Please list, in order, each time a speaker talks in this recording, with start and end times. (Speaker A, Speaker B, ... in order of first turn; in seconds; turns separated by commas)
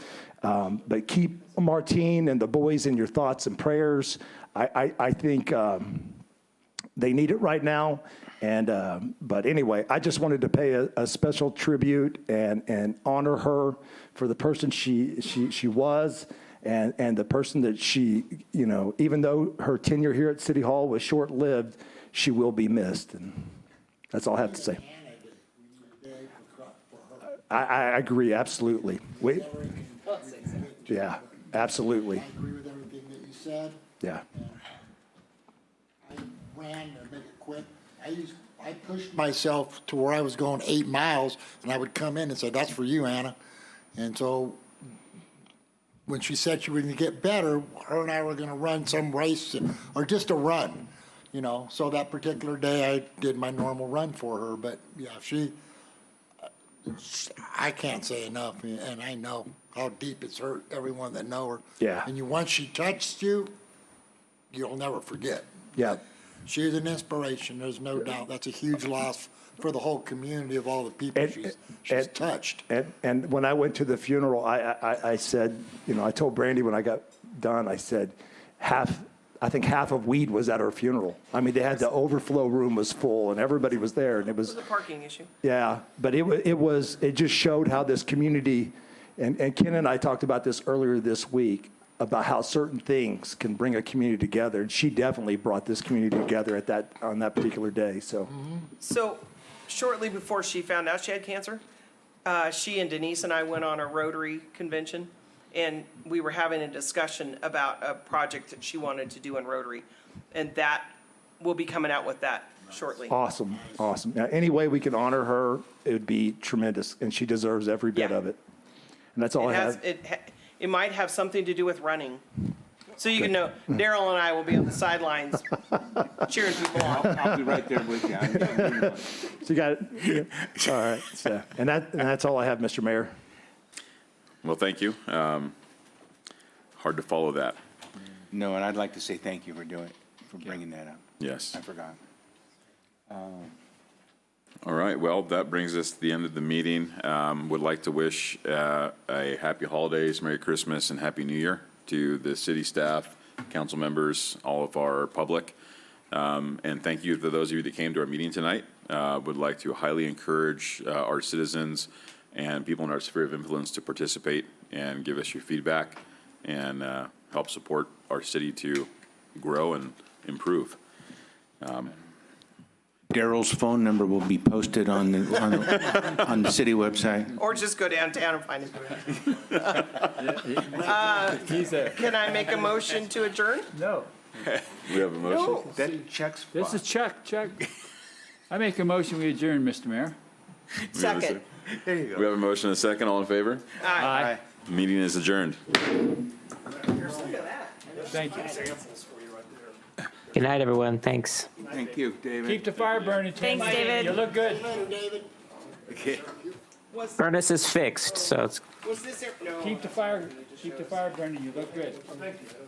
Speaker A: 0.4-6.2, Speaker A: 7.0-23.5, Speaker A: 24.1-24.8, Speaker B: 24.4-27.4, Speaker A: 27.4-29.5, Speaker B: 29.1-33.8, Speaker A: 30.9-32.2, Speaker B: 34.3-34.6, Speaker B: 36.0-43.4, Speaker B: 44.0-44.6, Speaker B: 46.1-55.5, Speaker B: 56.4-63.5, Speaker A: 61.8-62.1, Speaker B: 64.5-72.6, Speaker A: 71.2-72.1, Speaker A: 72.7-84.6, Speaker C: 84.4-85.3, Speaker A: 85.4-98.3, Speaker C: 98.8-101.6, Speaker C: 102.2-113.1, Speaker A: 113.1-118.4, Speaker A: 119.2-119.8, Speaker C: 119.4-122.2, Speaker C: 123.0-127.2, Speaker D: 126.8-129.2, Speaker A: 129.3-133.1, Speaker E: 134.4-135.5, Speaker E: 136.8-137.6, Speaker D: 138.3-142.0, Speaker E: 141.2-141.6, Speaker D: 143.1-143.5, Speaker E: 144.6-155.5, Speaker E: 156.1-170.8, Speaker E: 171.6-171.9, Speaker D: 173.1-177.3, Speaker C: 177.4-180.0, Speaker F: 180.2-182.0, Speaker C: 180.6-183.7, Speaker F: 183.7-184.1, Speaker E: 184.4-185.7, Speaker C: 185.2-185.7, Speaker D: 185.5-186.8, Speaker F: 186.5-187.6, Speaker F: 188.5-190.2, Speaker C: 190.8-191.4, Speaker E: 190.9-191.4, Speaker D: 191.8-192.3, Speaker E: 192.1-193.9, Speaker C: 193.8-194.2, Speaker F: 194.0-194.3, Speaker D: 194.0-194.4, Speaker E: 194.5-195.6, Speaker C: 196.9-199.5, Speaker B: 197.9-198.7, Speaker F: 198.1-198.4, Speaker G: 200.3-201.5, Speaker D: 201.6-203.4, Speaker F: 202.4-204.7, Speaker C: 203.4-204.2, Speaker G: 203.4-204.1, Speaker B: 204.0-205.3, Speaker B: 205.9-206.6, Speaker C: 206.9-210.8, Speaker G: 207.2-208.6, Speaker F: 209.6-212.3